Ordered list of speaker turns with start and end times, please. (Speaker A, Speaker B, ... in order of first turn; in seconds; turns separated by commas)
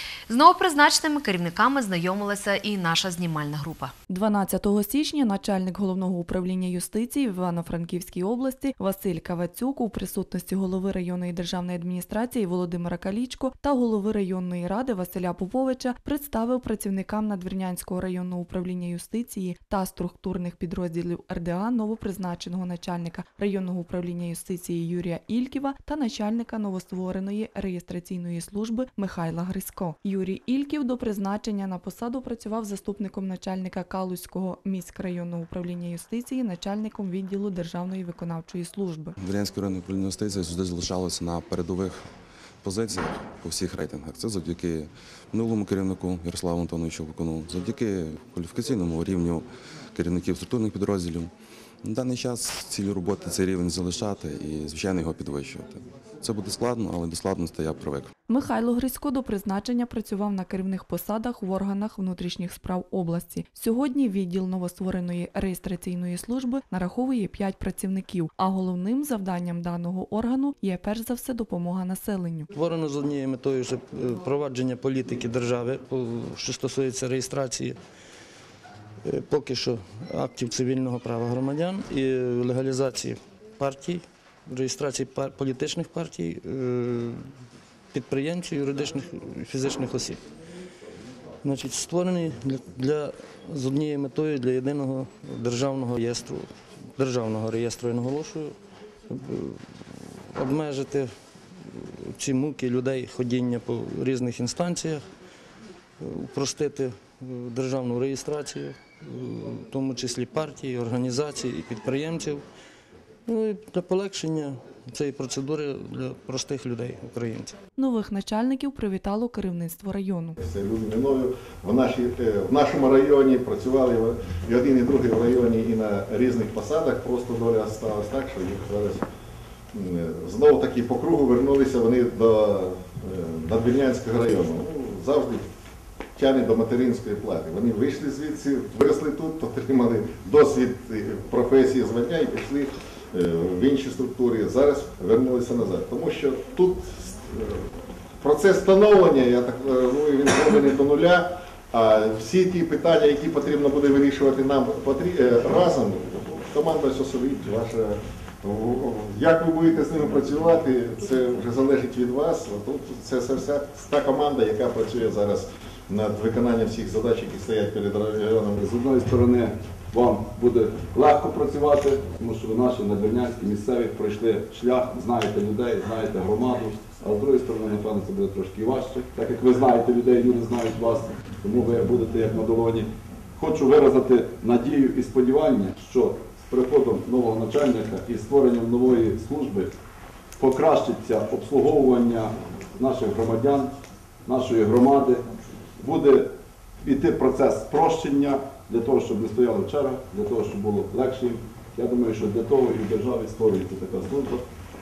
Speaker A: 0.3-3.9, Speaker B: 4.1-39.1, Speaker C: 39.2-42.0, Speaker C: 42.6-58.1, Speaker B: 58.3-72.5, Speaker D: 72.5-77.8, Speaker D: 79.0-87.2, Speaker D: 87.9-90.2, Speaker D: 91.4-96.5, Speaker D: 97.0-98.5, Speaker D: 99.1-101.1, Speaker D: 101.7-105.0, Speaker D: 106.0-112.4, Speaker D: 113.3-117.5, Speaker B: 117.8-120.4, Speaker E: 120.4-129.0, Speaker E: 129.7-135.4, Speaker E: 136.2-147.7, Speaker E: 148.2-168.6, Speaker F: 168.6-189.7, Speaker F: 190.4-193.7, Speaker F: 194.2-195.2, Speaker F: 195.8-196.3, Speaker F: 196.8-204.4